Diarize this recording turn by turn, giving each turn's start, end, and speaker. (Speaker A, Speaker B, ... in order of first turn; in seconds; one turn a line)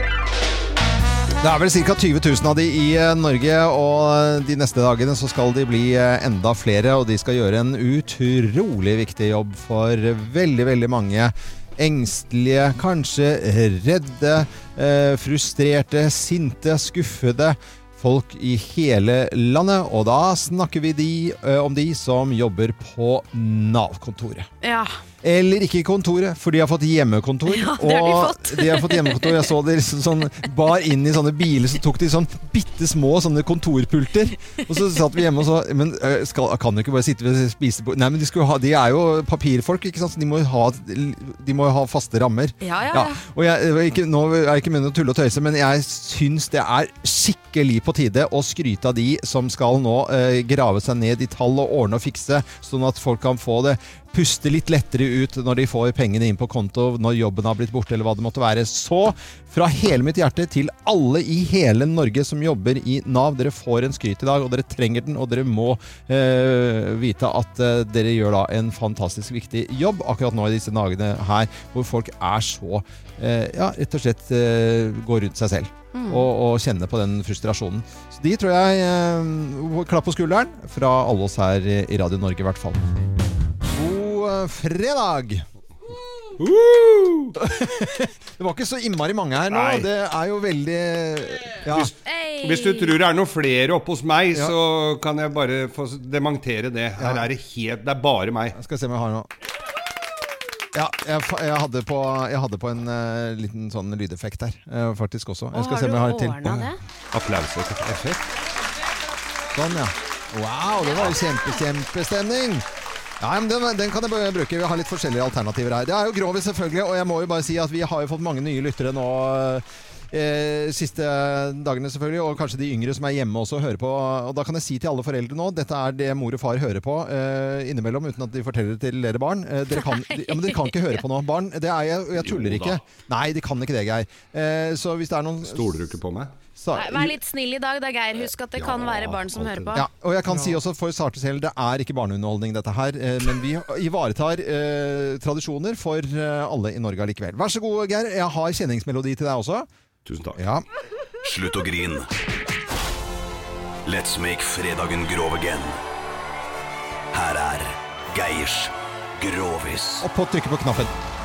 Speaker A: 1.4-24.5
Speaker B: 24.6-25.0
Speaker A: 25.2-82.8
Speaker B: 27.5-29.5
Speaker B: 42.6-43.2
Speaker B: 75.9-76.3
Speaker A: 83.7-85.5
Speaker C: 86.4-87.4
Speaker A: 87.4-91.9
Speaker C: 89.5-89.9
Speaker C: 91.7-98.5
Speaker B: 92.1-93.0
Speaker A: 97.0-97.3
Speaker A: 98.5-99.3
Speaker A: 100.7-106.7
Speaker B: 105.5-106.8
Speaker C: 107.1-108.2
Speaker A: 109.5-112.7
Speaker A: 113.2-135.7
Speaker B: 129.8-130.8
Speaker C: 132.2-132.8
Speaker C: 135.4-136.3
Speaker A: 136.6-137.2
Speaker B: 136.7-139.9
Speaker C: 138.6-139.8
Speaker A: 139.7-149.7
Speaker C: 140.3-140.6
Speaker C: 150.1-150.4
Speaker A: 150.4-150.7
Speaker D: 151.2-152.1
Speaker D: 153.9-155.8
Speaker D: 157.1-160.1
Speaker A: 160.0-160.9